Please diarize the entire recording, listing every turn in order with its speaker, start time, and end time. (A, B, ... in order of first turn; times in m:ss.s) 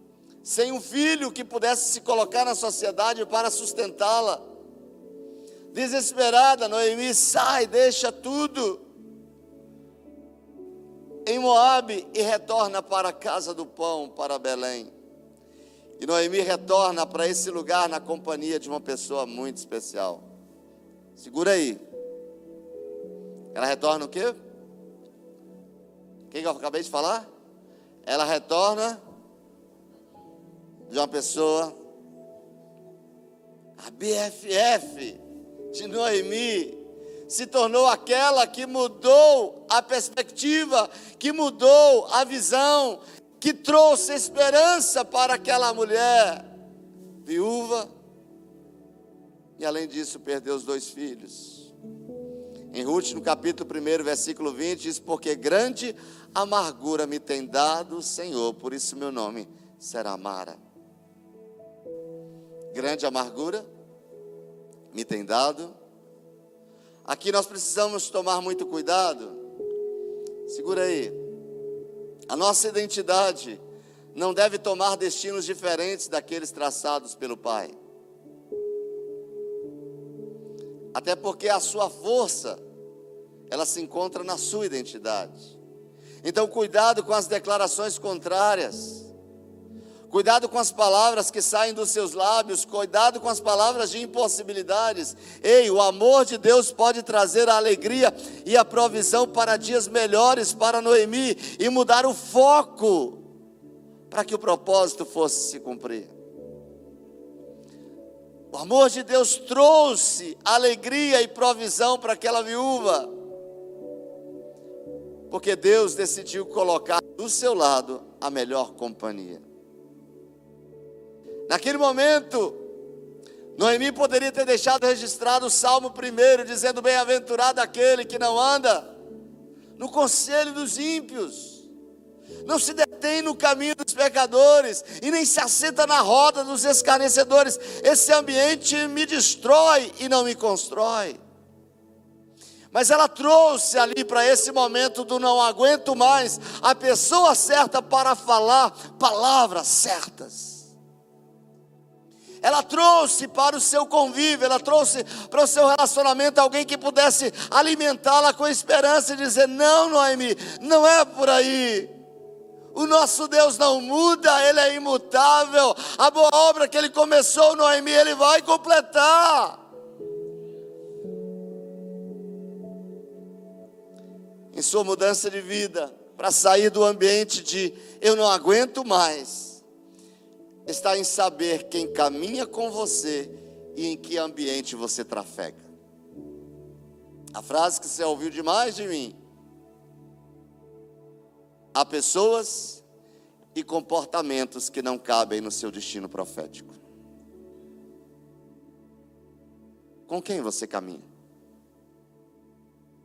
0:00.4-0:04.4 A
0:05.7-0:08.8 A
0:11.2-0:14.9 A
0:16.0-0:20.2 A
0:21.2-0:21.8 A
0:23.5-0:24.4 A
0:26.3-0:27.3 A
0:28.0-0:29.0 A
0:30.9-0:31.7 A
0:33.8-0:35.2 A
0:35.7-0:46.4 A
0:47.2-0:47.9 A
0:49.6-0:51.7 A
0:52.7-1:00.6 A
1:02.7-1:03.6 A
1:04.9-1:05.7 A
1:07.0-1:09.4 A
1:10.5-1:11.2 A
1:12.3-1:13.6 A
1:14.1-1:17.7 A
1:20.9-1:22.6 A
1:23.5-1:25.6 A
1:26.2-1:29.1 A
1:30.1-1:43.2 A
1:44.1-1:46.1 A
1:48.5-1:53.1 A
1:55.3-1:59.4 A
2:01.5-2:02.6 A
2:03.5-2:08.9 A
2:09.8-2:11.6 A
2:12.4-2:21.2 A
2:22.7-2:30.7 A
2:32.4-2:41.9 A
2:42.7-2:49.6 A
2:54.5-2:59.6 A
3:00.7-3:05.7 A
3:07.3-3:09.2 A
3:11.7-3:12.8 A
3:13.5-3:16.8 A
3:20.1-3:21.0 A